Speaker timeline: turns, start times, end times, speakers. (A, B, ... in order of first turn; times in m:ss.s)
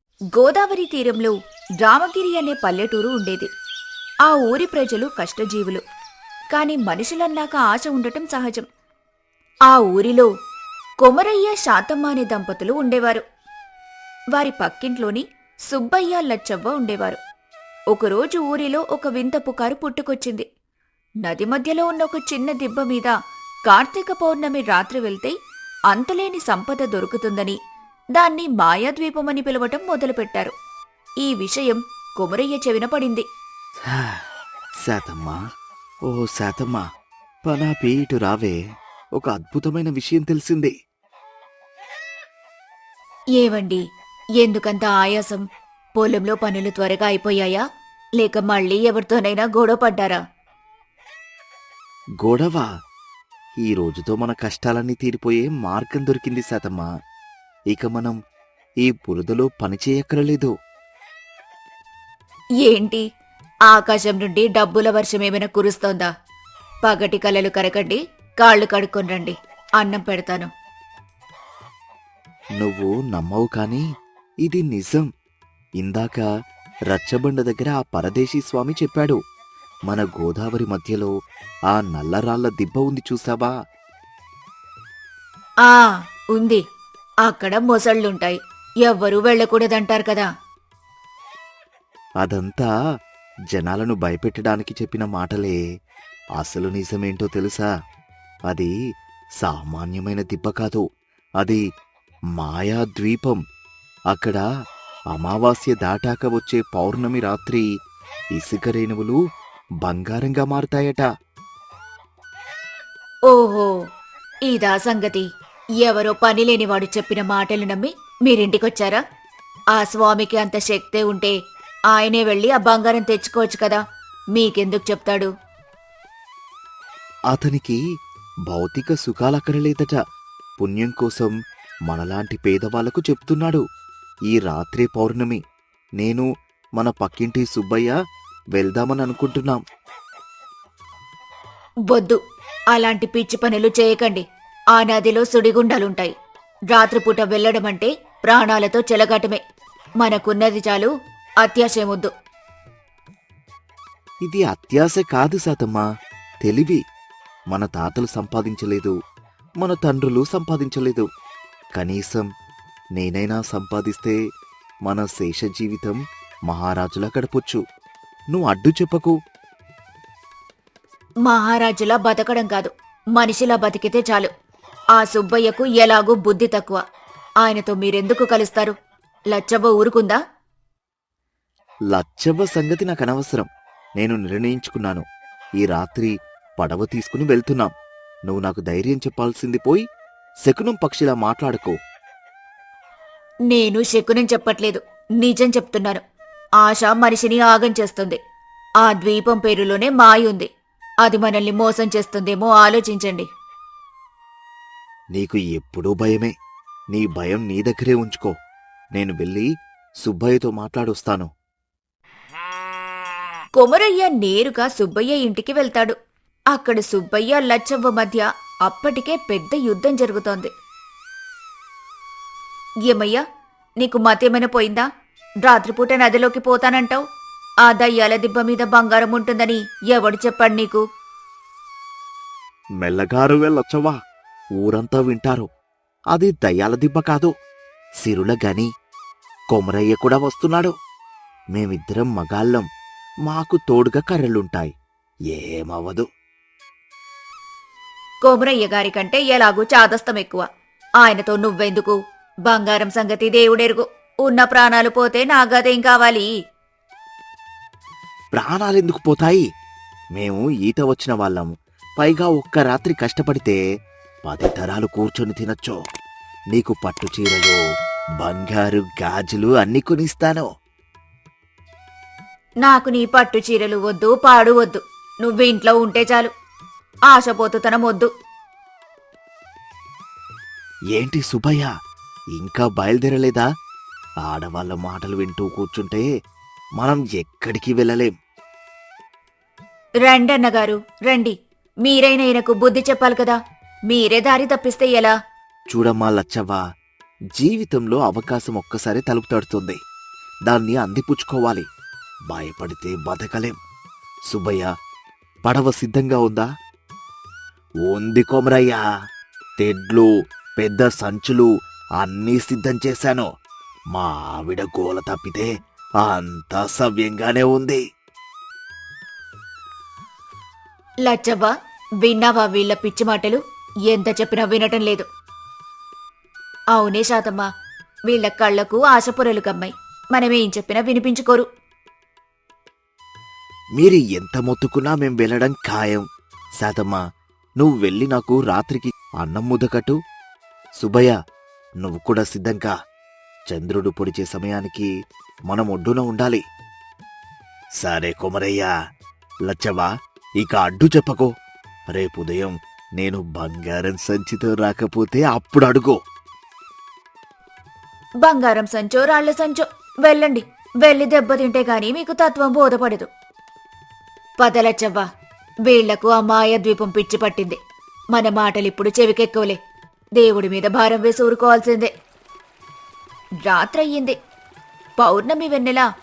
0:00.4-0:03.5 A
0:04.3-0:05.8 A
0:06.5-0:08.7 A
0:09.7-0:10.3 A
0:11.0-0:13.2 A
0:14.4-0:17.2 A
0:17.9-0:20.5 A
0:21.2-0:23.1 A
0:23.7-0:25.3 A
0:25.9-0:27.6 A
0:28.2-0:30.5 A
0:31.2-0:33.2 A
0:33.9-0:34.2 B
0:34.8-0:35.4 B
0:36.1-0:36.8 B
0:37.5-0:38.6 B
0:39.2-0:40.7 B
0:43.4-0:43.8 A
0:44.4-0:45.4 A
0:46.0-0:47.6 A
0:48.2-0:50.2 A
0:52.2-0:52.7 B
0:53.6-0:56.9 B
0:57.7-0:58.2 B
0:58.8-1:00.5 B
1:02.6-1:03.0 A
1:03.7-1:06.1 A
1:06.9-1:10.5 A
1:12.6-1:13.8 B
1:14.4-1:15.1 B
1:15.8-1:16.2 B
1:16.9-1:19.2 B
1:19.9-1:21.1 B
1:21.7-1:23.5 B
1:25.7-1:26.6 A
1:27.3-1:30.3 A
1:32.2-1:32.7 B
1:33.5-1:35.6 B
1:36.4-1:37.7 B
1:39.4-1:40.8 B
1:42.4-1:43.4 B
1:44.1-1:44.4 B
1:45.1-1:47.7 B
1:48.4-1:49.2 B
1:49.8-1:51.1 B
1:53.3-1:53.7 A
1:54.5-1:55.2 A
1:55.8-1:59.0 A
1:59.8-2:01.4 A
2:01.9-2:03.8 A
2:04.4-2:05.3 A
2:07.3-2:07.8 B
2:08.5-2:10.0 B
2:10.6-2:11.3 B
2:11.9-2:13.6 B
2:14.3-2:15.4 B
2:16.0-2:17.9 B
2:18.6-2:19.6 B
2:21.9-2:22.2 A
2:22.7-2:24.2 A
2:24.8-2:26.1 A
2:26.7-2:29.4 A
2:30.0-2:30.9 A
2:31.4-2:32.1 A
2:34.3-2:35.8 B
2:36.4-2:36.8 B
2:37.5-2:39.0 B
2:39.6-2:41.1 B
2:41.8-2:42.3 B
2:43.0-2:44.2 B
2:44.9-2:46.0 B
2:46.5-2:47.6 B
2:48.3-2:49.1 B
2:51.3-2:54.3 A
2:55.0-2:56.8 A
2:57.4-2:58.7 A
2:59.3-3:00.2 A
3:01.9-3:03.5 B
3:04.0-3:05.0 B
3:05.6-3:07.7 B
3:08.3-3:09.8 B
3:10.4-3:11.8 B
3:13.5-3:16.0 A
3:16.6-3:18.2 A
3:18.8-3:20.5 A
3:21.0-3:23.3 A
3:25.2-3:26.3 B
3:26.9-3:28.3 B
3:29.0-3:29.5 B
3:30.0-3:31.3 B
3:33.6-3:36.0 A
3:36.5-3:40.5 A
3:42.9-3:43.2 A
3:43.8-3:44.9 A
3:45.5-3:47.0 A
3:47.7-3:50.8 A
3:52.8-3:54.0 B
3:54.6-3:55.5 B
3:56.1-3:57.3 B
3:58.0-3:58.7 B
3:59.5-4:00.7 B
4:01.6-4:02.6 B
4:03.3-4:04.7 B
4:05.3-4:06.0 B
4:08.2-4:10.4 A
4:11.0-4:12.0 A
4:12.5-4:16.3 A
4:18.4-4:19.4 B
4:20.2-4:23.6 B
4:24.3-4:25.8 B
4:26.5-4:27.6 B
4:28.2-4:30.5 B
4:32.6-4:36.3 A
4:37.1-4:38.1 A
4:40.9-4:41.7 B
4:42.4-4:43.5 B
4:44.2-4:46.1 B
4:46.8-4:48.1 B
4:50.1-4:53.4 A
4:53.9-4:55.1 A
4:55.7-4:56.6 B
4:57.4-4:59.8 B
5:00.5-5:01.7 B
5:02.3-5:03.6 B
5:04.3-5:04.7 B
5:05.5-5:06.5 B
5:07.8-5:08.8 B
5:09.6-5:13.3 B
5:13.9-5:15.5 B
5:16.0-5:17.8 B
5:21.1-5:23.4 A
5:23.9-5:25.1 A
5:26.7-5:27.5 A
5:28.1-5:31.5 A
5:33.8-5:36.0 B
5:36.6-5:37.0 B
5:37.6-5:40.0 B
5:40.8-5:41.1 B
5:41.8-5:42.7 B
5:43.5-5:44.9 B
5:45.5-5:46.4 B
5:47.8-5:48.7 B
5:49.5-5:49.9 B
5:50.4-5:51.3 B
5:52.0-5:56.0 B
5:58.2-6:03.1 A
6:04.4-6:05.0 A
6:05.7-6:07.6 A
6:08.2-6:09.6 A
6:10.2-6:11.9 A
6:13.5-6:14.2 A
6:15.0-6:15.8 A